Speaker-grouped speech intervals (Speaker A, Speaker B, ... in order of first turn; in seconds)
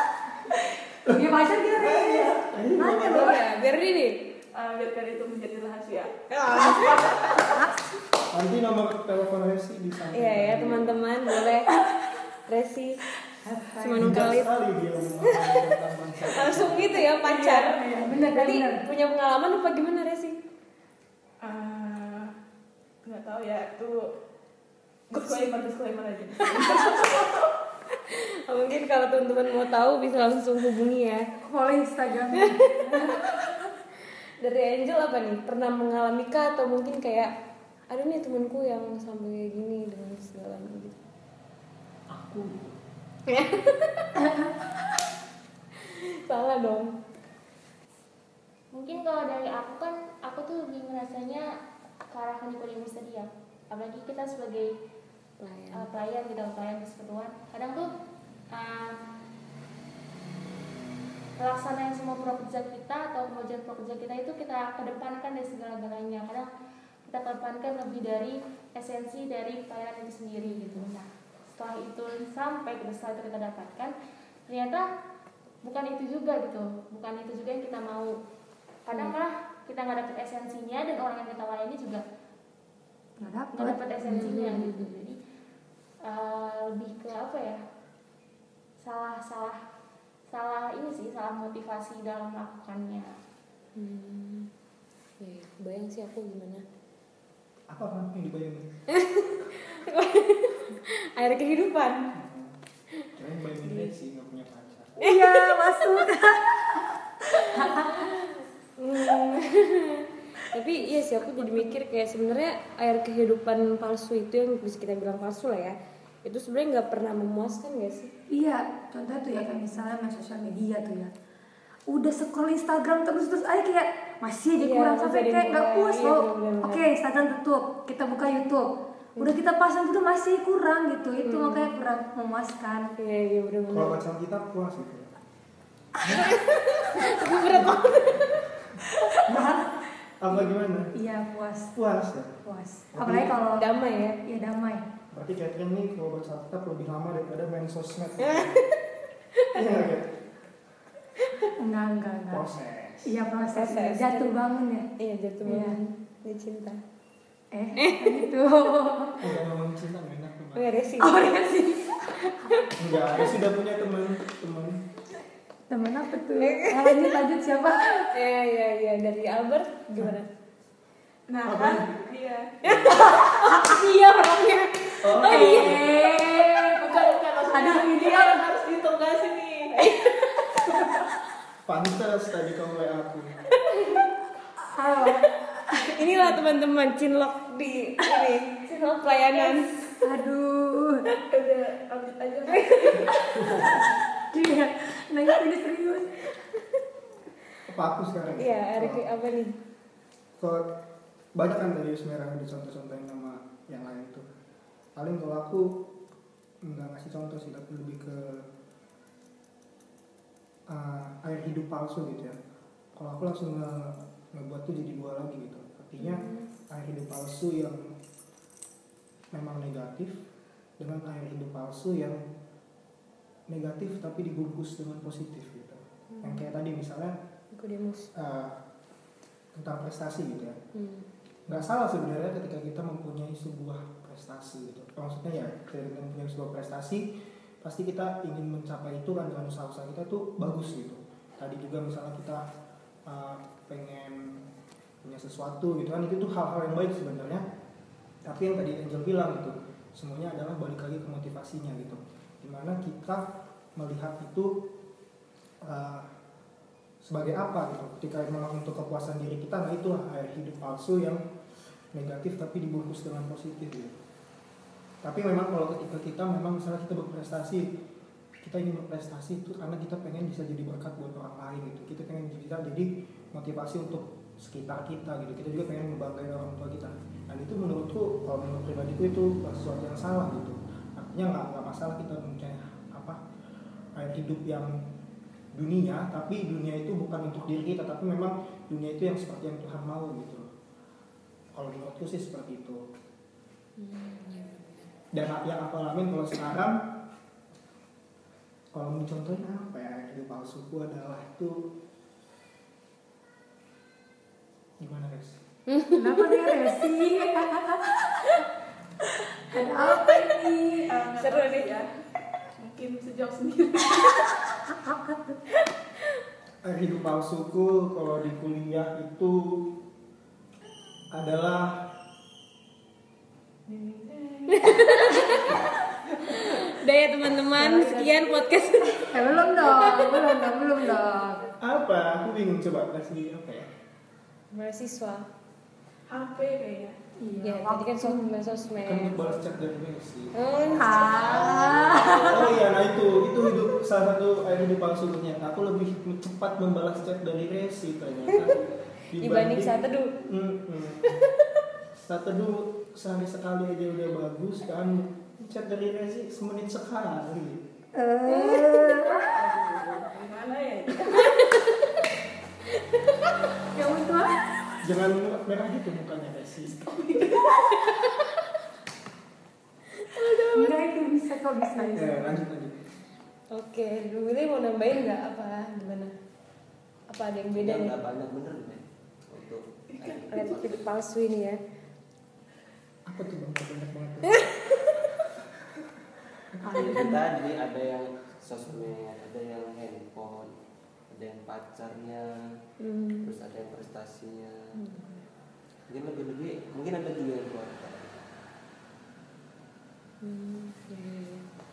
Speaker A: 1.1-3.4, 8.3-11.0, 14.0-17.0, 42.1-42.8, 97.7-98.8, 102.1-102.6, 103.2-105.0, 133.7-135.1, 137.2-139.7, 140.2-140.9, 141.8-142.4, 142.9-143.4, 145.1-148.6, 149.5-150.3, 152.3-153.2, 159.2-160.8, 162.8-164.8, 171.4-171.9, 172.7-173.1, 175.0-175.9, 181.7-183.3, 193.3-193.7, 197.7-199.1, 200.4-200.7, 201.3-204.3, 204.9-205.9, 206.6-208.5, 210.7-212.4, 212.9-217.9, 219.3-220.2, 220.8-222.2, 223.5-227.2, 228.1-228.6, 229.5-230.6, 231.5-237.1, 237.6-242.5, 243.1-244.5, 245.0-247.4, 248.2-254.6, 255.6-256.1, 257.0-261.2, 261.9-264.0, 265.0-267.7, 268.4-283.2, 283.9-284.9, 285.5-290.5, 291.5-292.8, 295.1-296.8, 298.7-301.7, 304.8-305.4, 316.6-319.7, 321.1-321.9, 331.6-333.7, 338.8-340.3, 342.2-351.2, 351.9-357.7, 364.8-367.2, 371.9-372.8, 383.1-384.7
Speaker B: 1.1-3.4, 6.5-7.9, 13.4-14.4, 16.9-18.9, 31.4-33.4, 83.2-84.7, 105.0-108.1, 110.8-111.8, 118.3-121.1, 121.9-132.9, 139.3-139.7, 140.3-141.8, 142.4-144.9, 151.6-152.5, 153.0-154.9, 155.4-155.8, 157.5-159.2, 161.0-162.6, 165.7-168.1, 172.8-178.4, 184.7-186.1, 190.0-191.1, 194.3-196.3, 305.9-308.3, 309.5-311.0, 314.7-315.4, 329.1-331.5, 337.2-338.3, 340.8-342.6, 357.9-359.4, 363.7-364.4, 370.5-372.4, 386.6-387.4, 394.8-395.1
Speaker C: 3.1-4.2, 6.3-7.0, 10.1-11.7, 12.5-13.0, 13.8-14.5, 16.3-20.4, 25.2-25.4, 26.4-27.2, 28.1-31.2, 32.4-33.0, 34.4-37.3, 37.9-41.0, 43.3-44.5, 45.9-47.0, 55.4-55.9, 70.4-70.8, 84.1-84.9, 93.8-94.5, 95.2-96.6, 98.9-102.1, 105.0-106.1, 107.3-118.1, 124.6-126.9, 131.2-131.7, 133.0-134.0, 136.0-138.3, 143.5-144.2, 148.2-148.6, 151.2-151.5, 153.5-154.4, 155.0-156.8, 157.8-158.3, 160.6-161.3, 166.4-167.2, 168.0-170.3, 172.6-173.1, 175.3-175.7, 185.8-189.7, 192.6-193.2, 198.4-199.6, 216.0-216.4, 226.1-226.5, 227.5-228.1, 230.8-231.1, 293.8-294.9, 305.7-306.6, 311.2-311.8, 324.5-325.6, 326.2-330.4, 334.5-335.3, 337.4-339.2, 340.4-342.2, 349.2-350.1, 361.2-361.6, 370.2-370.4, 373.5-376.1, 377.1-378.0, 380.3-381.6, 392.8-393.4, 400.2-401.5
Speaker D: 4.5-7.6, 21.4-22.3, 23.0-24.1, 25.1-27.3, 171.3-172.6, 175.1-181.0, 191.3-193.3, 310.9-312.0, 312.6-314.4, 323.7-325.7, 327.6-328.1, 336.1-337.0, 358.9-361.8, 366.9-368.1, 370.2-370.5
Speaker E: 48.7-51.5, 52.1-54.7, 55.7-57.9, 58.5-59.0, 61.4-66.5, 67.1-74.0, 74.5-74.9, 75.6-78.2, 78.9-82.0, 83.5-85.2, 86.0-87.6, 88.8-89.6, 90.3-93.2
Speaker F: 377.6-380.9, 386.8-390.5, 391.1-392.3, 393.2-394.7, 395.9-398.2